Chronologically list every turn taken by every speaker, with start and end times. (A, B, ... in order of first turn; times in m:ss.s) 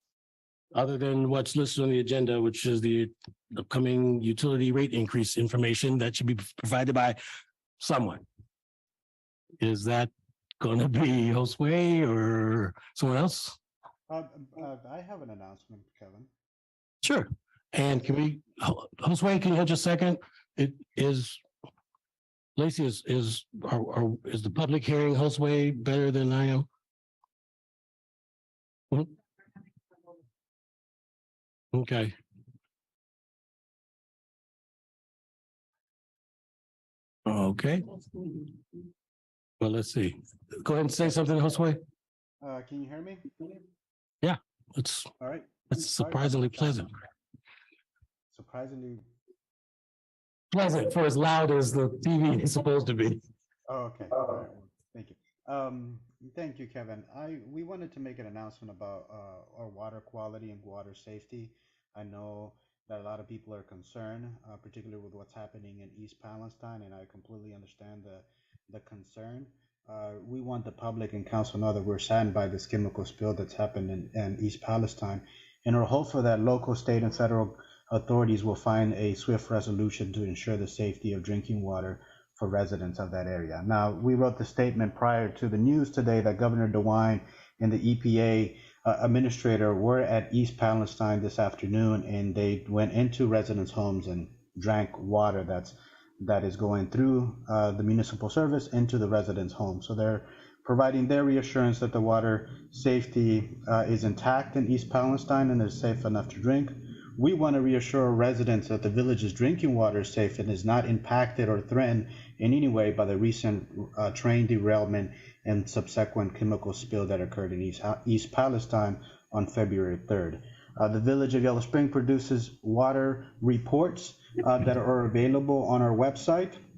0:00.7-0:07.2 A
0:07.8-0:08.2 A
0:09.6-0:13.6 A
0:14.1-0:16.3 B
0:17.0-0:21.4 A
0:22.6-0:26.7 A
0:31.7-0:32.1 A
0:37.2-0:38.0 A
0:39.6-0:41.8 A
0:42.4-0:43.6 B
0:44.2-0:45.1 A
0:45.2-0:46.8 B
0:45.7-0:46.9 A
0:48.3-0:49.0 B
0:50.5-0:53.2 A
0:53.7-2:06.6 B